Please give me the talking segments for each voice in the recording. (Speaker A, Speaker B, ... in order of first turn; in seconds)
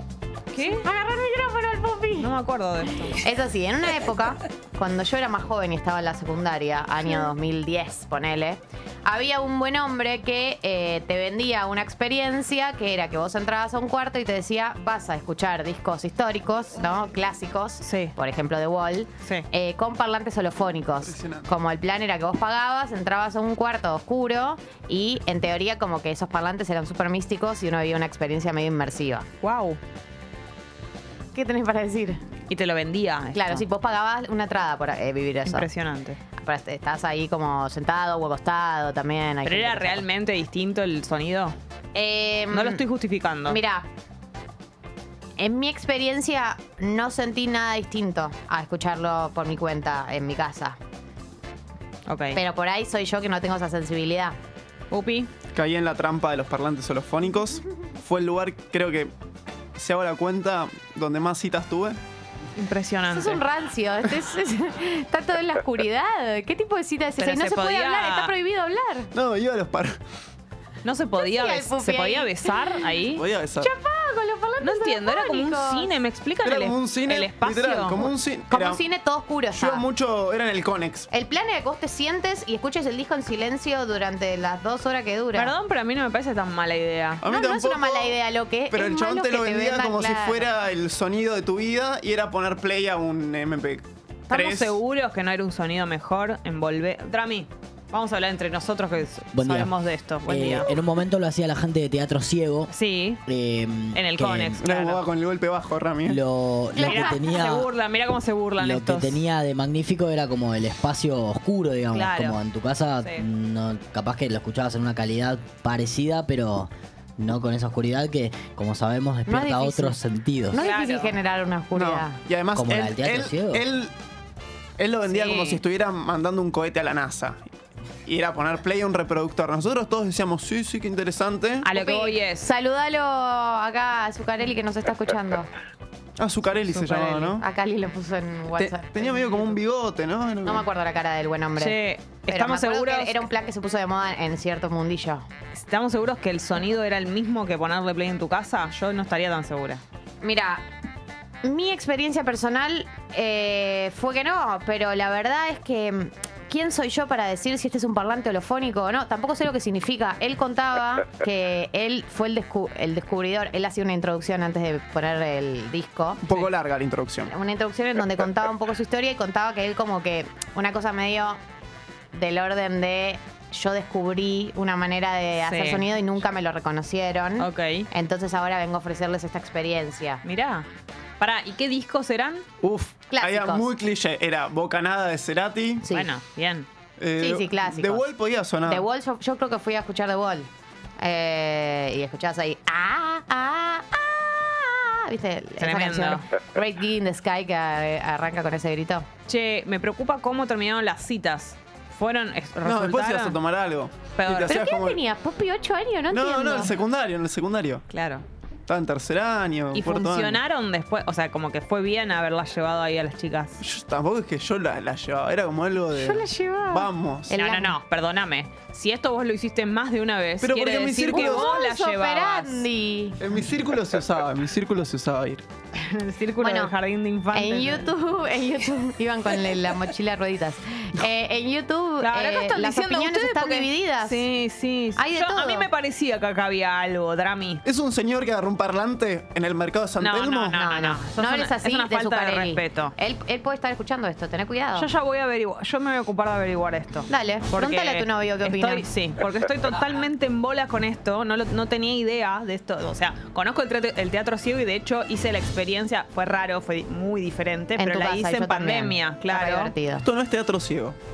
Speaker A: 0.5-0.8, 2.2-3.2, 17.8-18.1, 29.4-29.8, 32.5-33.6, 35.5-36.2, 39.4-41.6, 42.5-43.6, 52.1-52.4, 54.9-55.3, 62.5-63.4, 67.2-68.3, 70.8-73.2, 74.6-78.1, 85.3-87.2, 94.3-100.7, 102.7-103.2, 103.9-105.0, 106.8-109.2, 111.9-112.4, 120.5-121.2, 125.1-125.6, 131.6-132.5, 136.7-137.3, 141.6-143.2, 145.5-149.8, 175.4-175.8, 177.4-177.9, 180.2-180.7, 181.2-182.4, 185.9-186.7, 195.6-196.2, 199.3-203.4, 204.2-204.6, 207.9-208.2, 209.7-213.6, 217.3-222.6, 225.7-227.9, 232.0-237.6, 240.0-242.9, 244.7-259.7
Speaker B: 0.8-2.3, 3.1-29.3, 31.3-32.2, 33.3-35.7, 36.4-40.0, 41.9-42.8, 43.5-43.9, 45.4-50.8, 52.3-54.4, 63.1-69.1, 71.2-72.9, 73.6-75.9, 78.5-79.8, 81.1-85.5, 87.2-90.5, 106.8-107.2, 119.3-122.2, 131.7-135.5, 137.4-139.6, 140.4-145.2, 150.2-150.6, 151.4-166.2, 167.3-171.4, 172.1-180.2, 183.1-183.7, 187.2-188.0, 188.7-199.1, 204.4-206.7, 216.3-217.7, 221.1-223.2, 226.4-226.7, 227.3-234.3, 235.0-235.7, 240.5-244.9, 247.1-248.8, 257.8-260.0
Speaker C: 21.0-21.5, 55.5-59.1, 59.8-62.0, 69.1-70.0, 73.1-73.7, 76.4-78.8, 79.5-81.1, 87.2-88.1, 88.7-94.8, 104.6-106.2, 121.7-123.9, 124.8-127.4, 128.1-131.7, 136.2-137.4, 138.6-140.7, 166.2-167.3, 182.6-185.8, 187.0-188.8, 202.6-205.0, 206.1-207.8, 208.7-210.4, 213.6-217.3, 220.4-221.6, 223.2-225.4, 237.6-240.6, 260.0-261.0
Speaker D: 99.3-102.7, 103.2-104.6, 106.0-107.7, 108.6-120.6, 122.5-123.6